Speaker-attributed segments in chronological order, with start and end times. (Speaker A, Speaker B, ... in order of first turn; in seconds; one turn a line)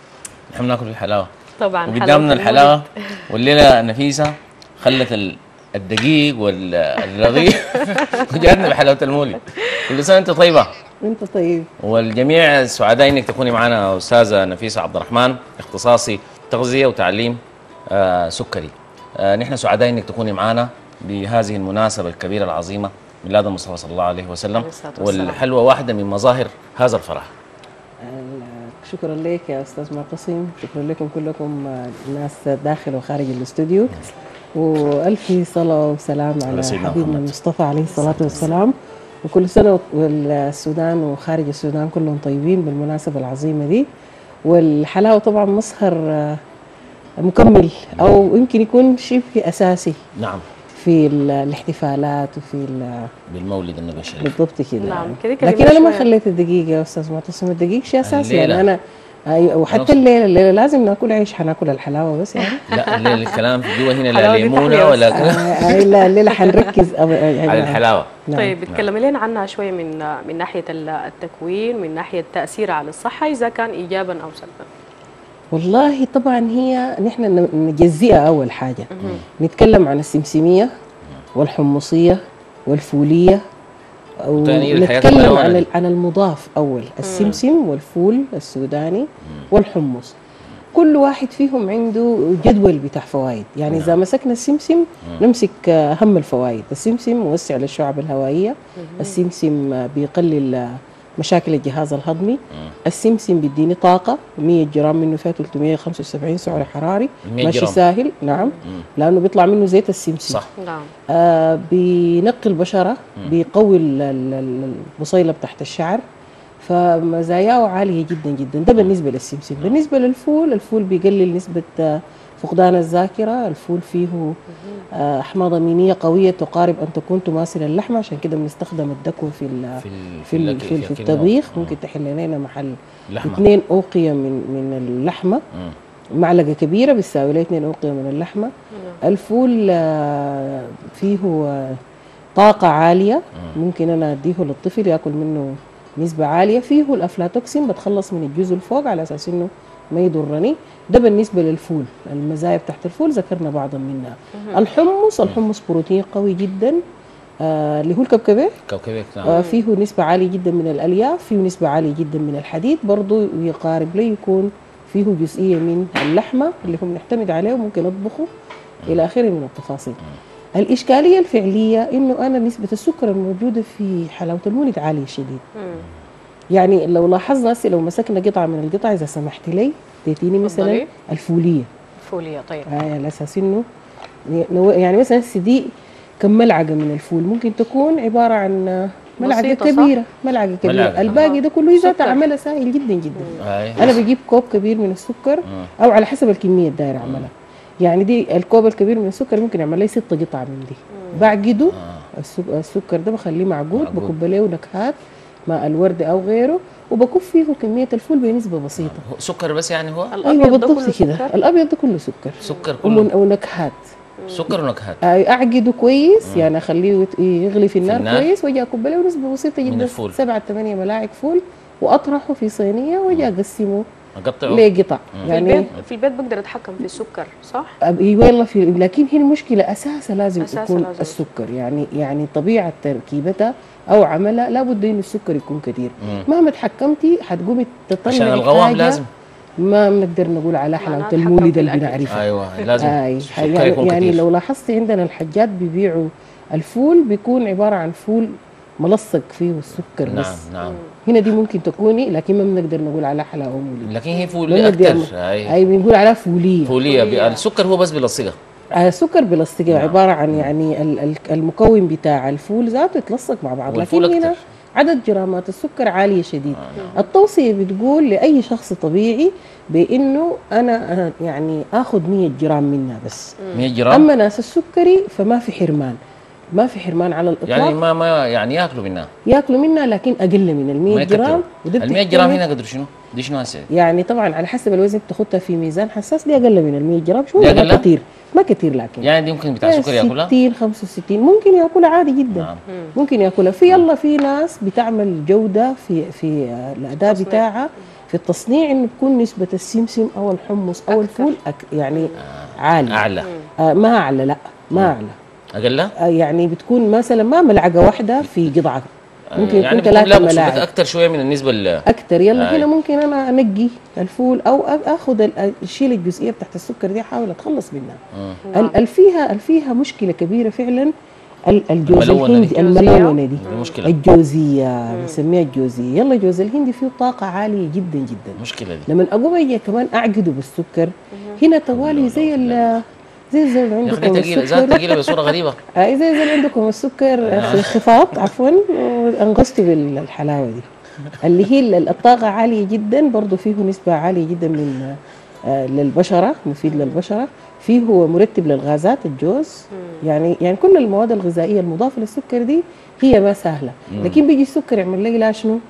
Speaker A: 0.5-1.3
Speaker B: 1.6-3.2
Speaker A: 1.9-10.7
Speaker B: 7.8-8.7
Speaker C: 11.0-11.7
Speaker A: 11.8-27.3
Speaker B: 24.5-25.4
Speaker C: 28.0-43.9
Speaker A: 36.5-37.3
Speaker A: 38.0-38.5
Speaker B: 38.1-38.4
Speaker C: 44.5-46.4
Speaker C: 47.2-50.0
Speaker A: 50.2-50.5
Speaker C: 50.7-53.1
Speaker A: 53.3-54.4
Speaker C: 54.2-62.6
Speaker B: 54.8-56.1
Speaker A: 58.0-58.7
Speaker A: 59.7-60.0
Speaker B: 62.4-66.8
Speaker A: 62.7-65.6
Speaker C: 65.1-68.6
Speaker A: 67.5-68.2
Speaker B: 68.3-74.7
Speaker C: 75.5-80.7
Speaker B: 78.9-79.2
Speaker C: 81.4-83.4
Speaker C: 84.2-90.2
Speaker A: 84.4-85.7
Speaker B: 87.0-87.4
Speaker C: 90.7-110.4
Speaker A: 93.7-94.0
Speaker B: 98.8-99.2
Speaker A: 107.2-107.8
Speaker B: 108.3-108.6
Speaker B: 110.6-110.9
Speaker C: 111.1-116.0
Speaker C: 116.6-124.4
Speaker C: 124.9-135.4
Speaker A: 129.8-131.8
Speaker A: 133.1-133.5
Speaker C: 136.2-141.8
Speaker B: 138.7-139.0
Speaker C: 142.4-156.8
Speaker B: 154.4-154.6
Speaker C: 157.4-158.6
Speaker A: 158.7-159.4
Speaker C: 159.2-168.3
Speaker B: 159.3-159.6
Speaker C: 168.9-170.0
Speaker C: 170.6-175.4
Speaker B: 175.6-175.9
Speaker C: 176.5-181.7
Speaker B: 180.4-180.9
Speaker B: 182.1-182.7
Speaker C: 182.7-183.7
Speaker C: 184.3-205.0
Speaker B: 189.2-189.9
Speaker A: 190.6-191.2
Speaker B: 191.1-192.2
Speaker A: 193.4-194.0
Speaker A: 197.0-197.3
Speaker B: 201.0-201.3
Speaker A: 201.7-202.1
Speaker A: 203.7-204.1
Speaker C: 205.5-209.0
Speaker A: 208.8-210.2
Speaker B: 210.1-211.3
Speaker C: 210.2-213.8
Speaker B: 212.4-212.8
Speaker A: 212.4-213.1
Speaker B: 214.2-214.5
Speaker A: 214.3-215.0
Speaker C: 215.0-223.8
Speaker A: 216.2-216.5
Speaker A: 217.8-218.3
Speaker A: 219.6-220.2
Speaker A: 224.2-225.4
Speaker C: 224.4-225.7
Speaker B: 225.3-227.8
Speaker C: 227.8-239.0
Speaker B: 230.4-231.2
Speaker A: 236.0-236.3
Speaker A: 238.1-239.1
Speaker C: 239.6-242.2
Speaker B: 240.8-242.9
Speaker A: 242.1-244.2
Speaker C: 242.8-250.4
Speaker A: 250.0-250.8
Speaker B: 250.6-250.9
Speaker C: 251.1-253.9
Speaker A: 253.8-255.6
Speaker C: 254.4-256.8
Speaker A: 256.7-258.4
Speaker B: 256.8-257.4
Speaker C: 258.7-273.4
Speaker A: 259.7-260.5
Speaker A: 263.7-264.4
Speaker A: 266.5-267.0
Speaker B: 273.4-273.7
Speaker A: 273.5-274.1
Speaker C: 273.9-276.0
Speaker C: 276.6-277.8
Speaker A: 277.5-279.1
Speaker C: 279.2-282.4
Speaker A: 280.9-283.7
Speaker C: 283.7-289.1
Speaker A: 287.4-287.9
Speaker A: 289.0-290.3
Speaker C: 289.6-303.1
Speaker A: 292.3-292.6
Speaker B: 292.7-293.0
Speaker B: 297.1-297.5
Speaker B: 300.9-301.3
Speaker B: 301.9-302.2
Speaker A: 302.2-303.3
Speaker B: 303.2-303.5
Speaker C: 303.6-305.2
Speaker A: 305.6-305.9
Speaker C: 306.0-310.7
Speaker A: 309.3-311.8
Speaker B: 309.4-309.7
Speaker C: 311.9-318.0
Speaker A: 312.3-312.7
Speaker A: 318.1-318.4
Speaker B: 318.5-318.8
Speaker C: 318.5-320.9
Speaker C: 321.5-340.7
Speaker A: 321.9-322.7
Speaker B: 322.5-323.8
Speaker A: 323.4-323.9
Speaker B: 324.9-325.2
Speaker A: 328.4-328.9
Speaker B: 331.1-331.4
Speaker A: 331.7-332.8
Speaker A: 333.8-335.6
Speaker A: 337.2-338.0
Speaker C: 341.2-355.6
Speaker B: 346.7-347.0
Speaker B: 349.7-350.0
Speaker A: 353.9-354.2